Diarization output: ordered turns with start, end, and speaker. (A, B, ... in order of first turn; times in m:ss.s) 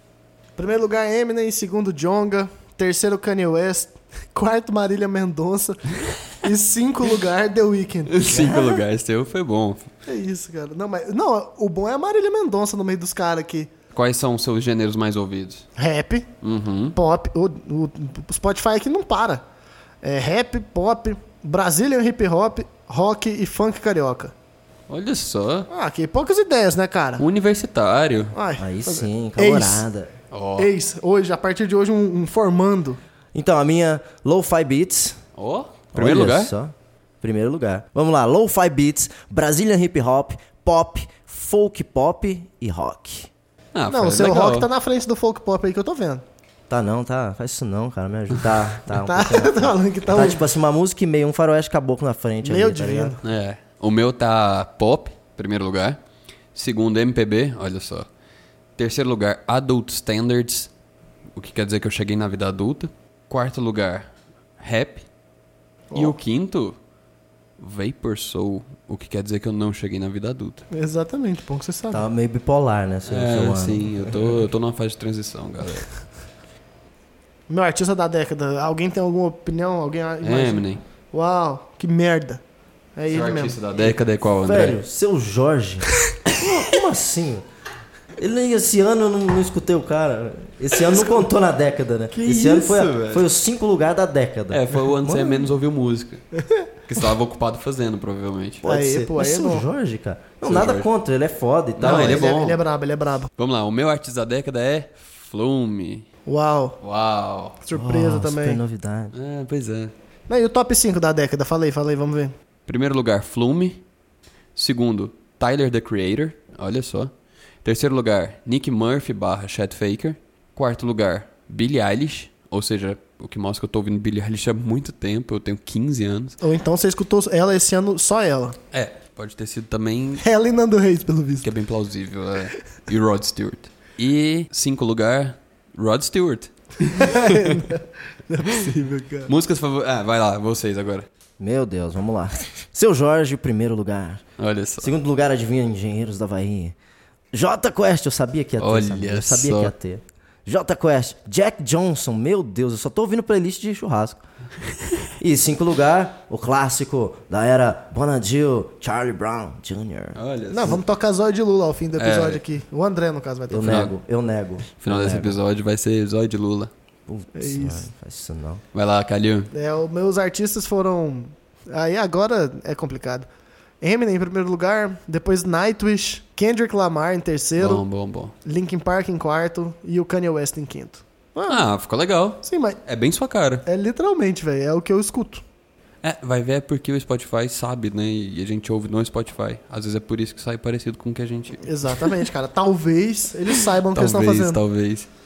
0:00.6-0:08.8 A
0:08.1-0:09.9 B
0:10.1-0:13.7 A
0:13.9-0:15.6 B
0:15.8-0:16.3 A
0:16.4-0:17.0 B
0:16.9-0:19.4 A
0:20.0-0:24.3 A
0:24.9-0:25.7 B
0:25.7-0:27.2 A
0:27.2-0:28.4 B
0:28.3-0:29.9 A
0:28.6-0:30.1 C
0:30.3-0:30.7 B
0:30.6-0:33.0 A
0:33.3-0:35.2 C
0:35.4-0:36.5 B
0:35.9-0:43.3 C
0:43.7-0:44.7 B
0:43.9-0:46.2 A
0:46.7-0:53.2 C
0:48.9-0:50.4 A
0:52.4-0:53.2 A
0:53.2-0:56.0 B
0:56.5-0:58.1 B
0:58.8-1:00.7 B
1:01.4-1:05.1 B
1:05.9-1:06.2 A
1:05.9-1:06.8 B
1:07.6-1:10.6 B
1:10.7-1:12.0 A
1:11.9-1:14.3 C
1:13.1-1:15.9 B
1:17.5-1:22.4 A
1:20.2-1:20.8 B
1:23.0-1:23.6 A
1:23.1-1:24.8 B
1:24.4-1:27.4 C
1:28.2-1:35.5 C
1:32.1-1:33.2 B
1:34.5-1:36.2 B
1:36.9-1:38.6 B
1:38.6-1:42.3 C
1:38.6-1:39.6 A
1:40.4-1:40.9 B
1:41.8-1:42.6 B
1:41.8-1:43.3 A
1:43.4-1:46.1 B
1:46.2-1:46.8 A
1:46.8-1:47.6 B
1:47.6-1:48.6 A
1:47.7-1:49.1 C
1:49.1-1:49.9 B
1:50.3-1:52.3 A
1:52.7-1:53.8 B
1:54.6-1:57.1 B
1:57.6-2:06.4 B
2:06.4-2:08.6 A
2:08.7-2:10.2 B
2:10.2-2:11.5 A
2:11.4-2:17.7 B
2:16.9-2:19.3 A
2:19.3-2:21.1 B
2:21.4-2:24.2 C
2:24.4-2:24.9 B
2:24.8-2:26.8 C
2:27.3-2:34.2 C
2:28.6-2:29.7 B
2:35.2-2:40.2 C
2:40.1-2:40.8 B
2:40.5-2:43.8 A
2:42.0-2:42.4 B
2:43.5-2:45.4 C
2:43.6-2:43.9 B
2:44.8-2:46.7 B
2:47.1-2:48.6 C
2:47.4-2:47.8 A
2:48.7-2:49.5 B
2:49.5-2:53.3 A
2:53.8-2:57.8 A
2:57.6-2:58.3 B
2:58.4-3:01.7 A
3:01.5-3:03.6 B
3:02.4-3:02.8 A
3:03.6-3:05.4 A
3:06.0-3:12.1 B
3:11.6-3:14.6 A
3:13.9-3:15.1 B